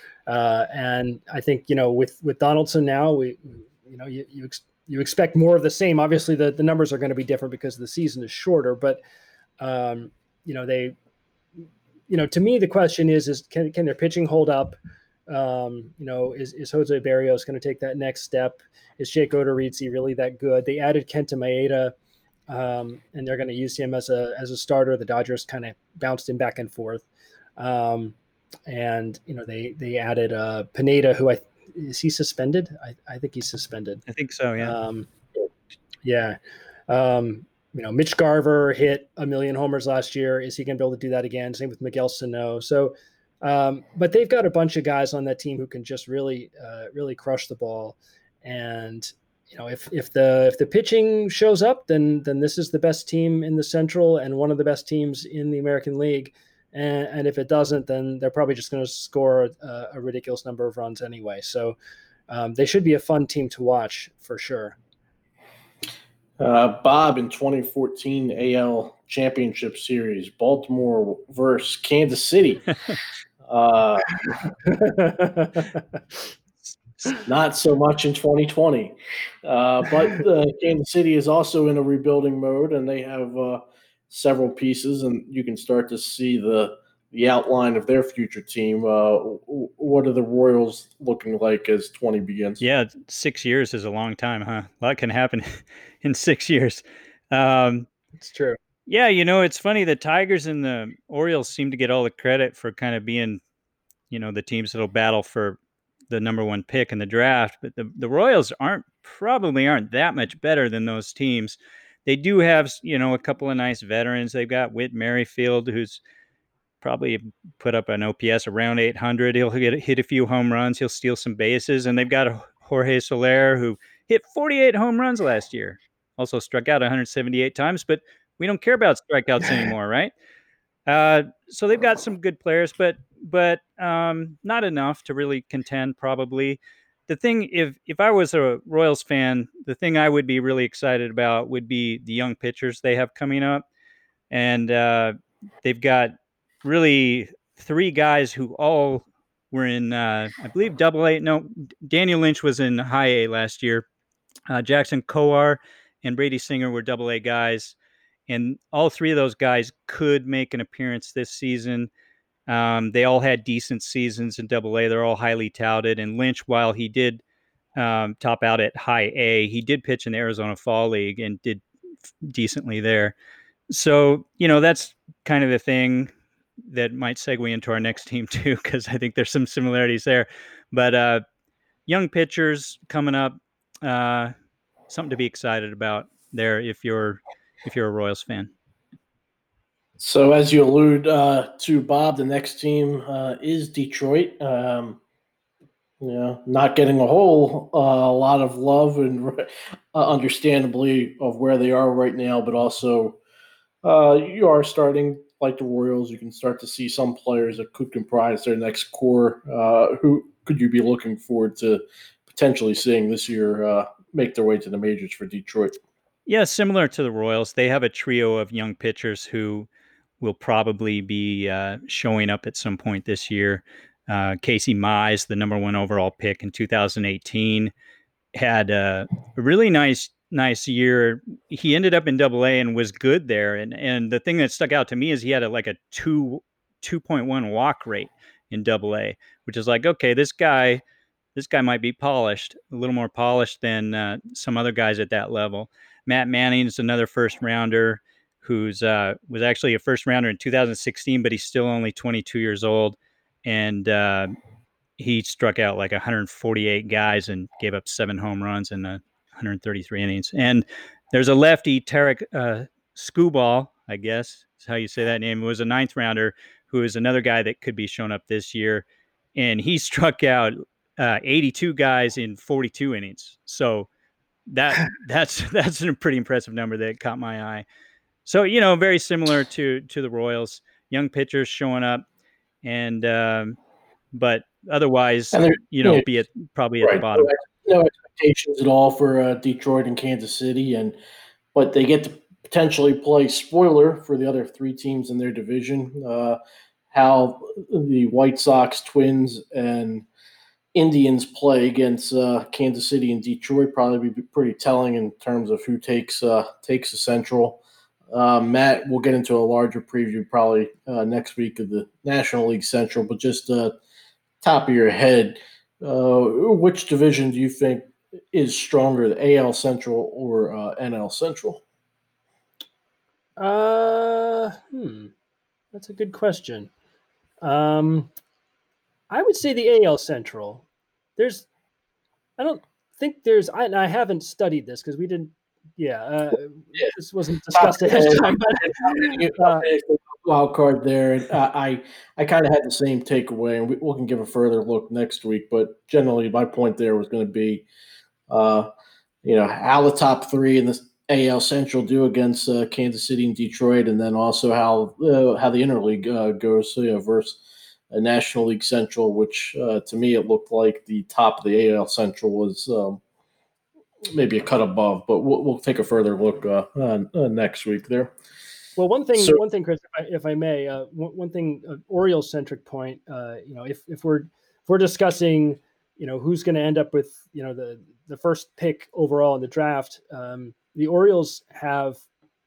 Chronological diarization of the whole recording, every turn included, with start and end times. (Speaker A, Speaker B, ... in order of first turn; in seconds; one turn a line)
Speaker A: 0.3-9.0
Speaker A: 9.6-10.9
Speaker A: 12.1-14.8
Speaker A: 15.3-21.9
Speaker A: 22.5-27.1
Speaker A: 27.6-28.1
Speaker A: 28.7-34.0
Speaker B: 34.1-34.8
Speaker A: 34.6-35.1
Speaker A: 36.0-36.4
Speaker A: 36.9-61.8
Speaker A: 62.3-64.8
Speaker C: 66.4-72.7
Speaker C: 73.5-74.1
Speaker A: 74.7-75.7
Speaker C: 77.2-92.6
Speaker B: 92.6-97.9
Speaker A: 98.2-98.6
Speaker B: 98.9-103.4
Speaker B: 104.1-105.6
Speaker B: 106.1-116.0
Speaker B: 116.8-130.1
Speaker B: 130.9-143.7
Speaker B: 144.3-153.9
Speaker B: 154.5-157.8
Speaker B: 158.3-161.9
Speaker B: 162.5-167.2
Speaker B: 167.8-171.6
Speaker B: 172.2-173.2
Speaker B: 173.7-176.1
Speaker B: 176.7-181.2
Speaker B: 181.9-184.3
Speaker B: 184.9-188.5
Speaker C: 190.0-195.0
Speaker C: 196.0-203.2
Speaker C: 203.8-215.8
Speaker B: 216.3-219.7
Speaker B: 220.2-227.7
Speaker B: 228.3-240.8
Speaker B: 241.3-254.3
Speaker B: 255.0-273.9
Speaker B: 274.5-277.6
Speaker B: 278.2-282.1
Speaker B: 282.6-283.6
Speaker B: 284.1-287.3
Speaker C: 285.3-286.1
Speaker C: 286.8-290.9
Speaker C: 291.5-296.4
Speaker C: 296.9-300.1
Speaker C: 300.8-313.7
Speaker C: 314.4-321.6
Speaker A: 323.4-325.1
Speaker A: 325.7-326.7
Speaker A: 327.4-328.1
Speaker A: 329.1-330.6
Speaker A: 331.2-331.5
Speaker A: 332.4-339.7
Speaker C: 337.6-347.6
Speaker C: 348.3-348.7
Speaker C: 349.2-357.4
Speaker C: 357.9-363.0
Speaker C: 364.1-368.1
Speaker A: 368.8-382.0